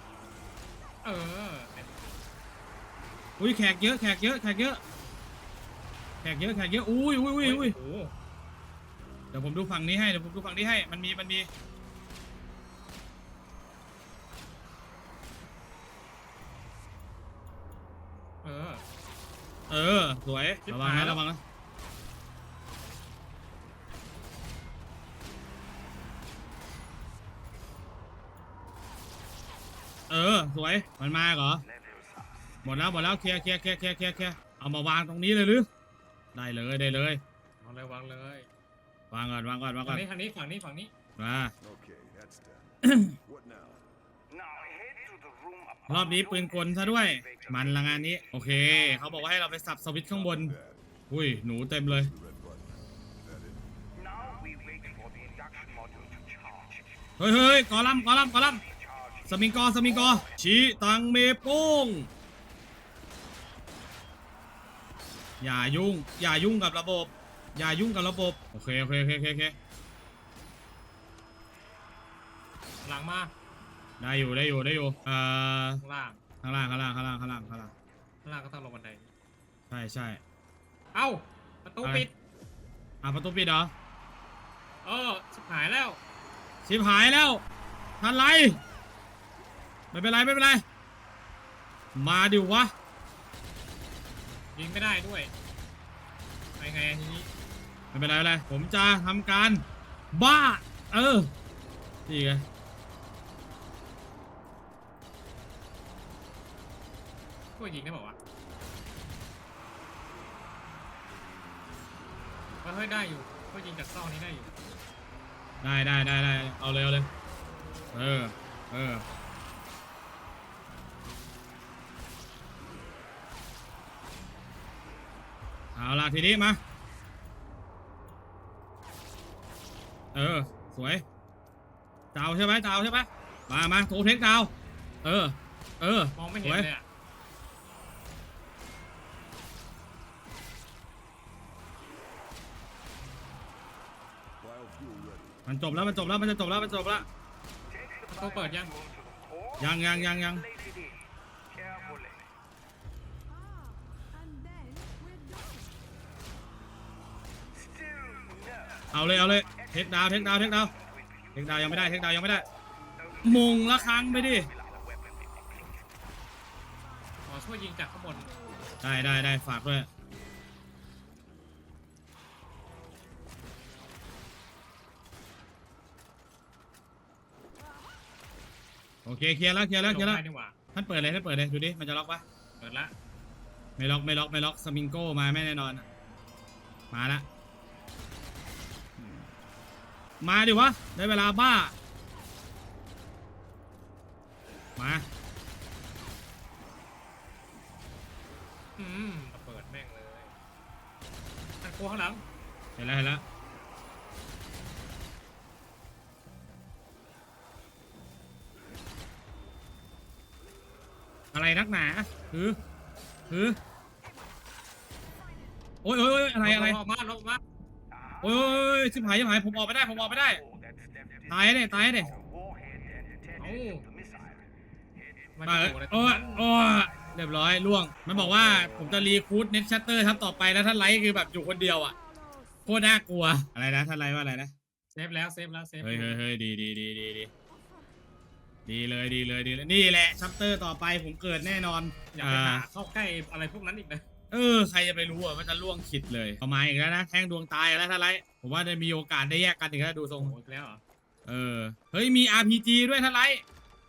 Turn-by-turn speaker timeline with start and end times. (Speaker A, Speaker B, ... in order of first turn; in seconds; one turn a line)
Speaker A: 1.0-1.9
Speaker B: 3.4-4.8
Speaker B: 6.2-7.7
Speaker A: 7.4-8.1
Speaker B: 9.3-11.5
Speaker A: 18.4-18.8
Speaker B: 19.7-21.4
Speaker A: 20.7-21.2
Speaker B: 30.1-31.6
Speaker C: 31.7-32.6
Speaker B: 32.6-35.7
Speaker B: 36.3-37.2
Speaker A: 37.6-38.5
Speaker B: 39.1-40.0
Speaker A: 39.8-40.9
Speaker B: 41.2-41.5
Speaker D: 41.6-43.8
Speaker B: 42.8-43.1
Speaker C: 44.3-48.0
Speaker B: 45.9-50.5
Speaker D: 50.1-50.8
Speaker B: 51.1-52.1
Speaker D: 51.9-53.7
Speaker C: 54.0-56.9
Speaker B: 57.2-58.6
Speaker C: 58.4-60.3
Speaker B: 59.3-62.1
Speaker B: 65.4-69.5
Speaker A: 72.8-73.3
Speaker B: 74.0-75.8
Speaker A: 75.8-76.2
Speaker B: 76.4-77.7
Speaker A: 78.2-79.1
Speaker B: 79.7-80.2
Speaker A: 80.9-82.1
Speaker B: 83.0-83.7
Speaker A: 84.8-86.0
Speaker B: 86.6-87.4
Speaker B: 88.0-88.6
Speaker B: 89.9-90.6
Speaker B: 92.0-92.7
Speaker A: 94.5-95.3
Speaker A: 96.6-97.3
Speaker B: 97.9-101.3
Speaker B: 102.1-102.4
Speaker A: 107.6-108.2
Speaker A: 112.6-114.5
Speaker B: 115.6-117.1
Speaker B: 117.9-119.0
Speaker B: 125.8-126.6
Speaker B: 130.1-131.0
Speaker B: 132.1-134.5
Speaker B: 135.0-136.7
Speaker A: 136.2-136.8
Speaker D: 144.4-147.1
Speaker B: 145.4-147.1
Speaker C: 147.7-152.3
Speaker A: 148.1-148.8
Speaker B: 149.6-150.4
Speaker C: 157.6-161.9
Speaker B: 158.9-160.7
Speaker B: 161.3-162.4
Speaker C: 163.0-165.8
Speaker B: 163.2-164.5
Speaker A: 167.3-168.3
Speaker B: 168.8-169.9
Speaker B: 179.0-180.2
Speaker A: 179.8-180.5
Speaker B: 180.7-182.2
Speaker A: 182.6-182.9
Speaker B: 183.8-185.8
Speaker B: 186.9-187.2
Speaker B: 189.0-189.3
Speaker B: 190.2-191.7
Speaker B: 194.8-195.1
Speaker A: 198.8-200.3
Speaker A: 201.6-202.2
Speaker B: 202.8-203.2
Speaker B: 211.3-212.6
Speaker B: 213.3-213.6
Speaker B: 215.8-216.8
Speaker A: 216.4-217.4
Speaker C: 217.9-221.4
Speaker B: 218.2-220.4
Speaker B: 221.3-222.1
Speaker C: 222.1-224.5
Speaker A: 223.3-223.8
Speaker A: 225.3-226.4
Speaker B: 225.4-231.9
Speaker A: 228.1-229.0
Speaker B: 232.7-234.5
Speaker A: 234.9-236.2
Speaker B: 235.8-237.3
Speaker B: 238.7-242.7
Speaker A: 242.1-244.0
Speaker B: 244.3-250.3
Speaker A: 250.2-250.8
Speaker B: 251.2-253.4